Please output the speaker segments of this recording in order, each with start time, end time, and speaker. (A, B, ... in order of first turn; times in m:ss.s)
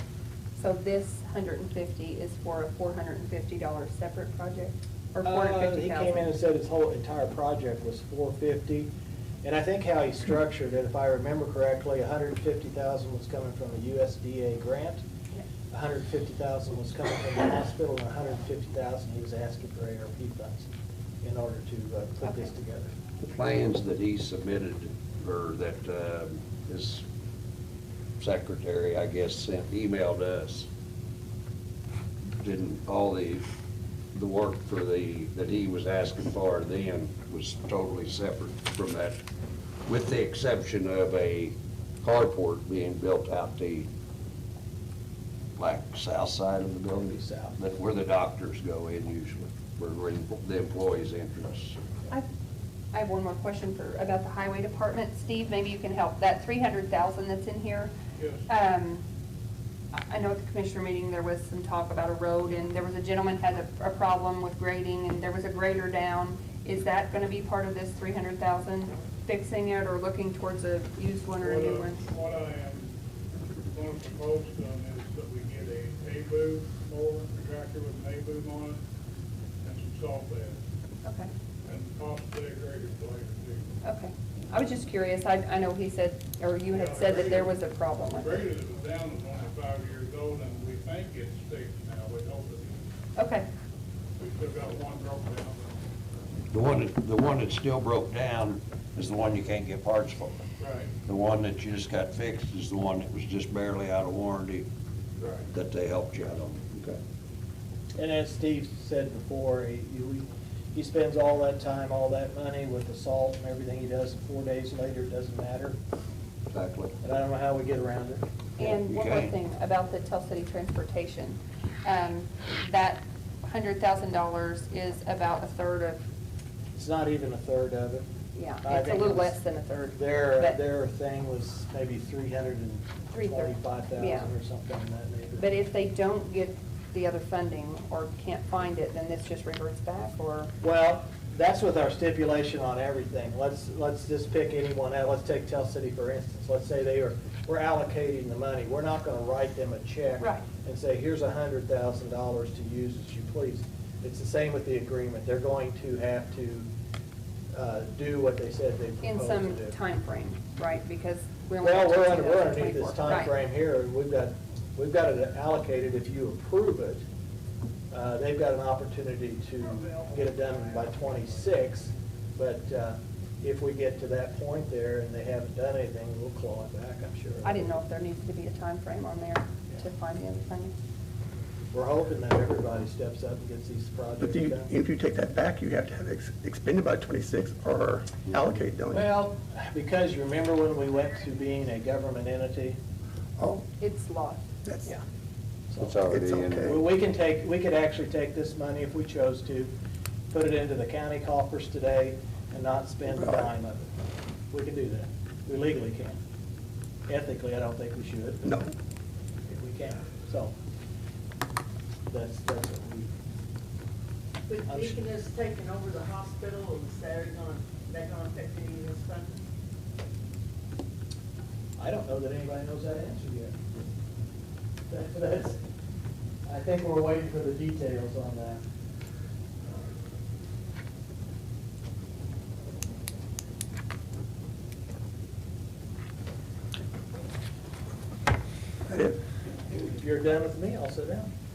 0:00.6-0:06.2 A
0:05.2-0:08.9 B
0:09.4-0:15.0 B
0:15.7-0:20.7 B
0:21.2-0:22.9 B
0:22.2-0:22.5 A
0:23.2-0:27.0 C
0:28.2-0:30.7 C
0:32.3-0:33.4 C
0:34.1-0:39.2 C
0:39.8-0:43.9 C
0:45.6-0:51.8 C
0:47.1-0:47.5 B
0:52.9-0:57.9 A
0:58.2-0:58.4 D
0:58.5-0:59.0 A
0:59.9-1:12.1 A
1:11.3-1:12.9 D
1:13.7-1:18.8 D
1:19.6-1:20.6 D
1:21.0-1:21.3 A
1:21.6-1:23.7 D
1:23.8-1:28.4 A
1:26.7-1:27.6 D
1:28.1-1:32.8 D
1:33.2-1:33.5 A
1:34.2-1:35.8 D
1:36.5-1:40.4 C
1:40.6-1:40.9 D
1:41.0-1:44.7 C
1:45.2-1:45.5 D
1:45.5-1:47.0 C
1:48.0-1:55.8 B
1:56.5-1:56.9 C
1:57.0-1:58.2 B
1:58.6-1:59.4 C
1:58.6-2:06.0 A
2:06.7-2:08.0 B
2:08.3-2:10.6 A
2:08.6-2:15.5 B
2:13.1-2:14.3 A
2:15.4-2:20.5 A
2:20.6-2:36.7 B
2:30.2-2:30.5 A
2:37.5-2:39.8 B
2:39.0-2:43.4 A
2:41.6-2:47.0 B
2:47.9-2:57.7 B
2:57.4-3:00.7 A
3:01.7-3:04.7 B
3:04.2-3:09.1 E
3:08.9-3:12.8 B
3:13.4-3:13.6 E
3:13.8-3:14.4 A
3:14.6-3:15.0 E
3:15.7-3:16.0 B
3:15.8-3:16.8 C
3:16.1-3:16.8 E
3:16.6-3:19.7 B
3:20.3-3:23.9 B
3:23.1-3:23.5 E
3:24.5-3:26.2 B
3:27.1-3:28.6 B
3:28.4-3:28.7 E
3:29.4-3:30.5 B
3:32.1-3:33.1 B
3:34.5-3:39.4 F
3:34.6-3:35.0 B
3:41.8-3:43.5 B
3:44.9-3:45.6 B
3:46.4-3:48.6 B
3:58.9-3:59.2 E
3:59.8-4:01.3 B